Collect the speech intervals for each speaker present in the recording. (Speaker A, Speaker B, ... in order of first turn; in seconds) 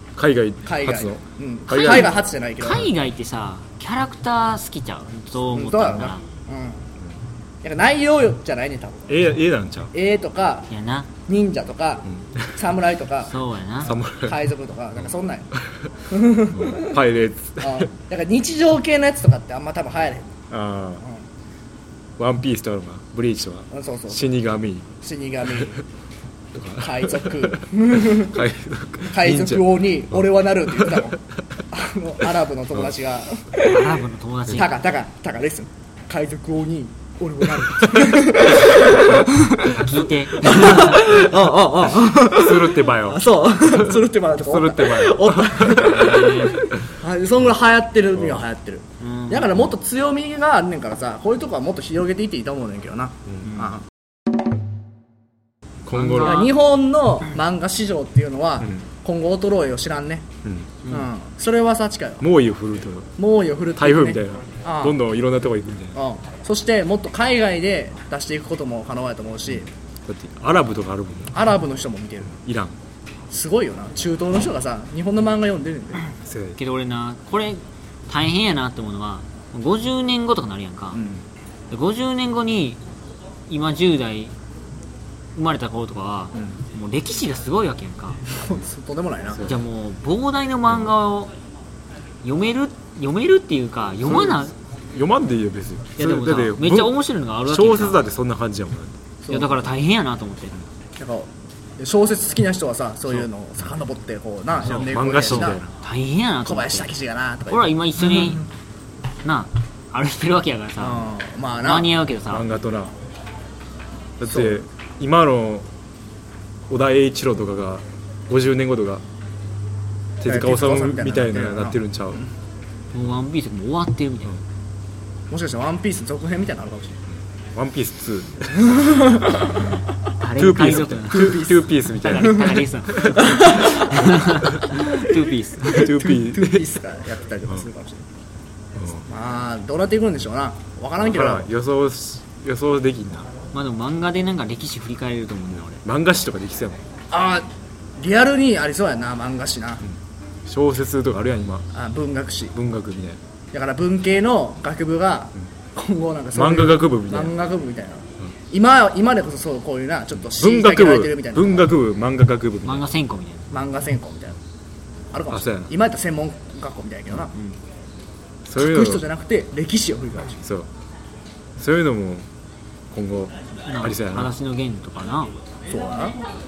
Speaker A: 0.1-1.2, 9.1-9.9, 12.1-12.6, 13.8-14.4, 16.5-17.9, 20.5-21.0, 22.2-24.9, 26.5-29.7, 42.1-45.9, 55.9-56.4, 60.4-60.7, 62.2-63.1, 63.8-66.0, 70.0-71.3, 72.3-72.8, 76.2-76.6, 94.1-94.3, 94.9-99.0, 104.6-105.7, 112.3-112.9, 114.2-115.7, 116.7-119.0, 120.2-122.2, 127.5-129.3, 130.4-133.2, 135.6-136.7, 138.8-139.0, 141.0-143.3, 145.8-146.8, 149.9-151.7, 152.5-153.2, 156.3-157.3, 160.3-162.8, 165.3-165.7, 168.4-169.1, 170.4-170.7, 171.6-172.3, 172.9-174.3
Speaker B: 0.6-2.9, 5.5-6.9, 7.6-9.1, 9.9-10.7, 11.3-13.3, 13.9-15.5, 16.1-17.0, 17.6-20.4, 23.7-24.2, 25.0-25.8, 26.8-28.4, 29.1-31.2, 31.7-34.0, 34.5-39.9, 40.4-53.8, 56.2-60.3, 60.9-62.2, 63.2-65.0, 65.9-69.7, 71.3-72.4, 73.3-76.0, 88.3-89.4, 99.2-99.7, 101.0-105.6, 106.4-108.4, 110.8-111.9, 114.3-114.6, 120.3-122.2, 125.3-127.0, 128.6-129.4, 131.1-134.0, 135.8-138.0, 139.1-141.5, 147.1-149.8, 151.7-152.5, 153.5-161.7, 163.5-164.4, 165.1-167.3, 168.6-170.4, 175.7-176.2
Speaker C: 1.7-6.2, 10.7-11.1, 13.2-13.9, 33.6-34.8, 38.9-41.3, 45.7-46.6, 49.0-49.5, 53.5-53.8, 55.9-56.6, 76.6-81.0, 81.7-82.8, 83.5-84.3, 85.3-88.2, 89.4-91.3, 92.2-94.5, 96.0-98.0, 99.3-100.6, 104.7-106.9, 107.5-108.5, 109.2-111.0, 111.6-112.5, 122.9-124.3, 129.4-136.0, 143.5-145.8, 162.6-163.5, 173.6-175.3